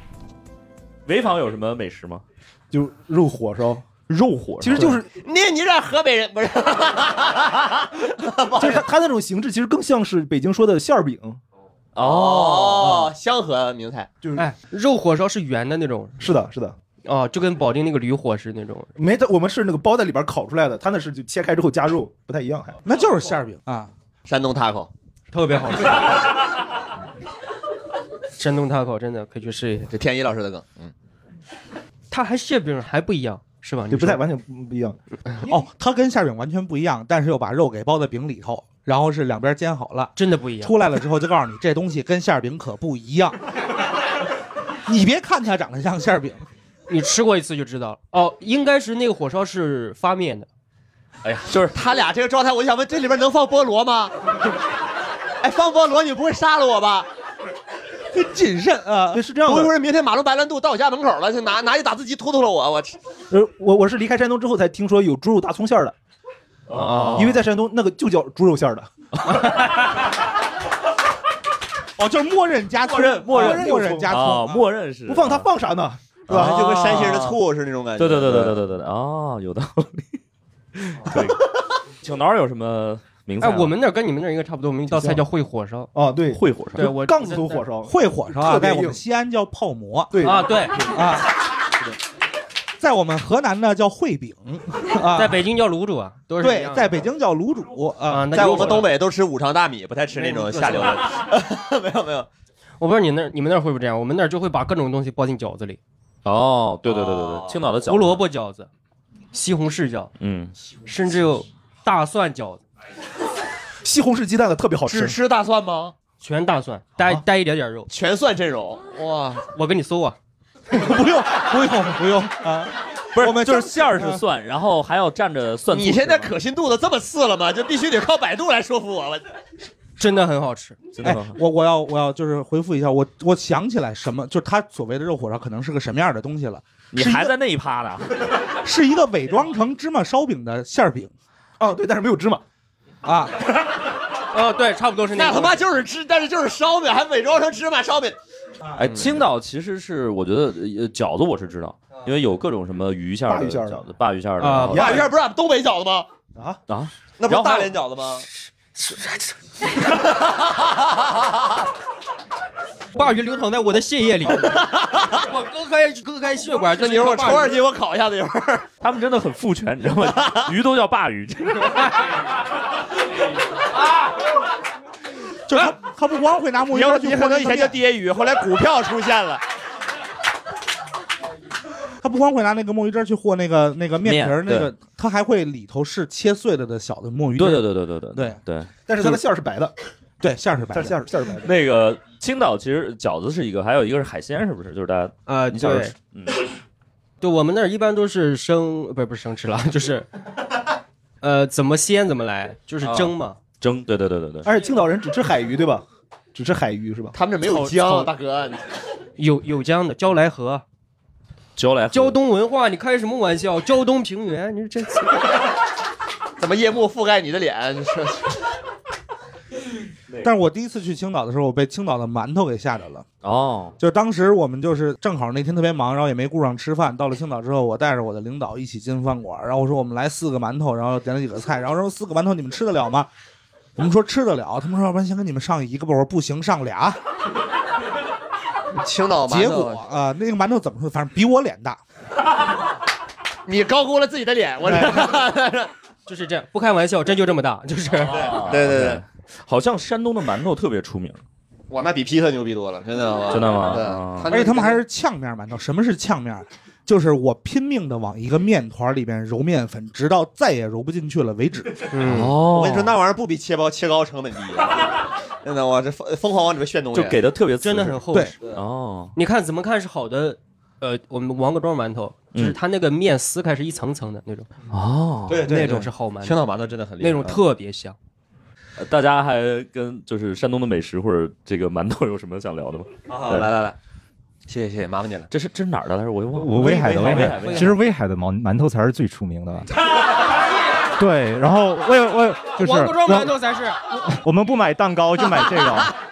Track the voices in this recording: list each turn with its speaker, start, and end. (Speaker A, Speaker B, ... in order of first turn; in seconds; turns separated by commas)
Speaker A: 1.1-2.2, Speaker B: 2.7-3.9, Speaker A: 4.1-5.0, Speaker B: 4.6-5.1, Speaker C: 5.1-8.8, Speaker B: 8.6-11.4, Speaker A: 11.9-13.1, Speaker C: 12.0-14.1, Speaker B: 14.2-14.5, Speaker D: 14.3-16.1, Speaker B: 16.2-16.8, Speaker D: 17.0-18.9, Speaker B: 18.9-22.8, Speaker E: 22.8-23.9, Speaker C: 24.2-24.9, Speaker D: 25.3-26.2, Speaker D: 28.4-29.9, Speaker C: 29.9-30.9, Speaker D: 32.1-34.2, Speaker B: 33.9-35.0, Speaker E: 35.4-43.4, Speaker D: 40.1-40.8, Speaker E: 44.9-46.5, Speaker D: 46.9-50.5, Speaker C: 51.2-54.1, Speaker C: 55.4-57.1, Speaker E: 58.1-59.2, Speaker B: 59.1-59.7, Speaker C: 59.4-63.0, Speaker B: 63.3-65.9, Speaker A: 66.7-67.4, Speaker D: 66.7-67.3, Speaker B: 67.2-68.9, Speaker A: 69.3-69.8, Speaker E: 72.0-74.7, Speaker A: 72.8-75.5, Speaker B: 73.2-74.1, Speaker B: 75.1-76.5, Speaker A: 76.3-77.4, Speaker C: 76.3-78.6, Speaker A: 78.0-80.2, Speaker A: 80.7-81.5, Speaker C: 81.1-81.4, Speaker A: 82.0-83.7, Speaker D: 83.4-85.9, Speaker B: 84.9-85.2, Speaker B: 85.9-89.0, Speaker A: 86.3-86.9, Speaker D: 86.8-87.6, Speaker E: 87.8-90.2, Speaker B: 90.1-91.1, Speaker D: 90.2-90.8, Speaker E: 90.9-91.3, Speaker E: 92.8-95.5, Speaker D: 95.1-97.0, Speaker E: 96.4-98.8, Speaker D: 98.1-98.9, Speaker C: 98.3-102.3, Speaker D: 100.2-101.0, Speaker D: 102.8-105.8, Speaker A: 106.2-108.2, Speaker C: 106.8-107.6, Speaker D: 107.9-108.7, Speaker D: 109.3-110.1, Speaker A: 110.2-110.5, Speaker D: 110.8-112.6, Speaker B: 113.8-115.2, Speaker C: 114.8-115.9, Speaker D: 116.2-117.9, Speaker C: 117.9-119.4, Speaker D: 119.5-120.2, Speaker E: 120.7-124.2, Speaker A: 123.1-126.3, Speaker C: 125.7-129.2, Speaker D: 130.0-130.8, Speaker A: 130.9-131.4, Speaker E: 131.0-137.3, Speaker A: 136.9-138.2, Speaker E: 138.6-141.1, Speaker B: 141.6-142.4, Speaker E: 143.0-143.4, Speaker D: 144.3-145.6, Speaker C: 145.1-148.2, Speaker A: 148.8-155.1, Speaker B: 153.3-153.8, Speaker D: 154.4-155.1, Speaker C: 154.7-156.1, Speaker B: 156.3-156.6, Speaker A: 156.7-157.7, Speaker C: 157.2-158.2, Speaker D: 158.8-159.2, Speaker C: 159.8-161.5, Speaker D: 162.9-164.6, Speaker C: 164.5-165.2, Speaker D: 165.2-167.6, Speaker C: 166.7-168.7, Speaker A: 168.8-171.8, Speaker C: 170.2-170.5, Speaker E: 175.5-177.8, Speaker C: 176.7-179.4, Speaker E: 182.0-188.4, Speaker A: 184.0-184.7, Speaker A: 187.4-188.7, Speaker B: 188.9-189.7, Speaker E: 190.2-191.0, Speaker B: 190.7-191.5, Speaker A: 191.4-196.4, Speaker D: 195.3-195.9, Speaker D: 197.2-200.1, Speaker D: 201.2-203.4, Speaker A: 202.8-204.5, Speaker B: 204.4-207.1, Speaker C: 207.1-208.7, Speaker D: 207.5-208.1, Speaker D: 209.2-210.6, Speaker A: 211.6-212.2, Speaker D: 211.9-215.2, Speaker C: 216.4-218.4, Speaker E: 220.2-223.1, Speaker A: 223.2-223.7, Speaker E: 223.8-233.1, Speaker E: 233.8-237.0, Speaker C: 238.8-239.8, Speaker E: 239.2-241.8, Speaker C: 243.4-245.7, Speaker E: 244.6-245.1, Speaker D: 246.1-248.3, Speaker C: 248.1-249.0, Speaker A: 248.2-251.2, Speaker C: 251.7-254.8, Speaker A: 253.3-254.3, Speaker E: 254.3-261.9, Speaker D: 261.9-262.3, Speaker A: 262.0-263.0, Speaker C: 262.3-267.3, Speaker A: 266.9-269.1, Speaker D: 267.6-268.4, Speaker D: 269.1-274.5, Speaker A: 274.7-275.5, Speaker C: 275.3-277.4, Speaker D: 275.4-276.4, Speaker D: 277.0-277.9, Speaker A: 278.8-283.5, Speaker C: 283.1-283.8, Speaker C: 284.5-285.3, Speaker A: 285.3-287.8, Speaker F: 286.3-289.7, Speaker C: 286.6-287.8, Speaker F: 291.0-293.3, Speaker D: 292.6-293.8, Speaker F: 294.1-295.9